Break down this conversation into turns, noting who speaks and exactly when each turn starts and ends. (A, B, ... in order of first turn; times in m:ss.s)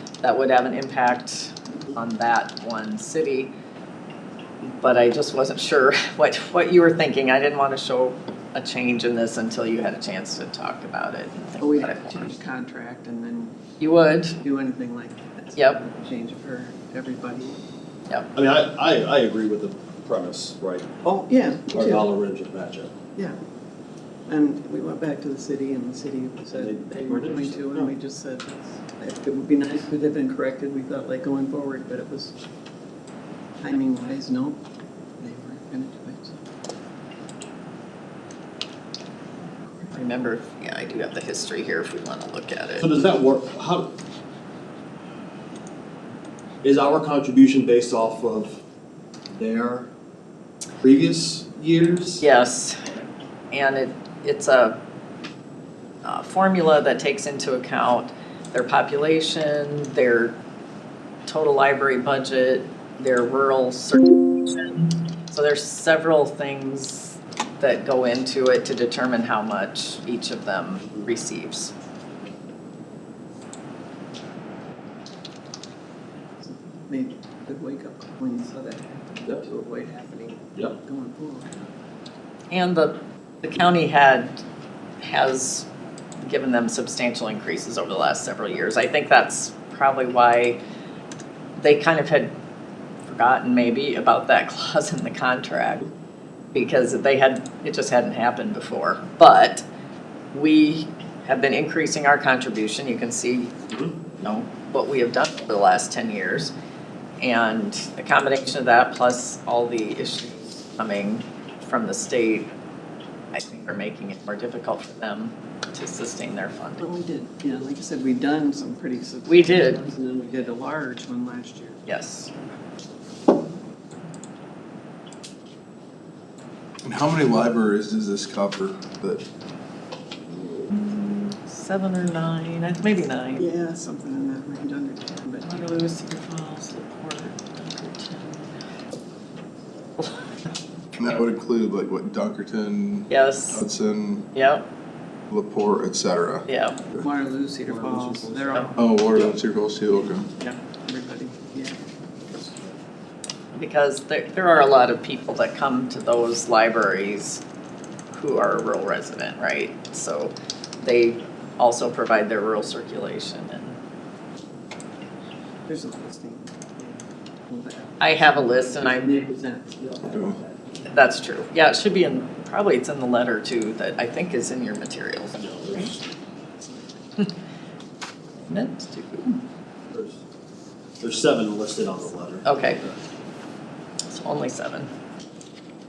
0:00.2-0:03.5 A
0:04.8-0:12.3 A
0:11.6-0:13.6 B
0:13.8-0:14.4 A
0:14.4-0:17.6 B
0:18.3-0:20.9 C
0:21.0-0:22.1 B
0:21.7-0:22.9 C
0:24.3-0:32.4 B
0:26.5-0:27.9 C
0:33.6-0:34.6 B
0:35.2-0:36.4 B
0:39.9-0:42.9 A
0:42.8-0:43.9 C
0:46.6-0:48.6 C
0:49.3-0:49.9 C
0:50.8-0:52.2 C
0:52.2-0:52.8 A
0:53.5-0:54.8 A
0:56.0-1:00.4 A
1:01.3-1:11.7 A
1:16.4-1:21.5 B
1:22.5-1:24.4 A
1:25.0-1:25.7 A
1:26.2-1:30.6 A
1:31.6-1:32.3 A
1:33.0-1:35.9 A
1:36.5-1:39.6 A
1:40.3-1:43.5 A
1:44.2-1:46.5 A
1:47.2-1:52.5 A
1:53.3-1:56.9 A
1:56.8-2:01.8 B
1:59.3-1:59.8 A
2:01.9-2:02.3 A
2:06.8-2:09.2 D
2:10.7-2:13.4 A
2:13.4-2:15.7 B
2:15.5-2:18.6 A
2:21.0-2:24.3 D
2:23.1-2:23.6 A
2:24.3-2:24.6 A
2:25.3-2:26.5 D
2:26.5-2:26.8 A
2:27.0-2:28.8 B
2:27.7-2:29.3 C
2:28.8-2:30.3 D
2:30.4-2:31.8 B
2:32.4-2:32.7 C
2:33.5-2:37.4 A
2:38.1-2:43.8 A
2:45.7-2:50.4 B
2:48.0-2:49.2 A
2:50.1-2:50.4 D
2:50.9-2:55.9 A
2:55.4-2:56.0 C
2:58.5-2:59.4 A
2:59.9-3:00.2 C
3:01.0-3:03.0 C
3:02.4-3:02.8 A
3:04.1-3:04.9 A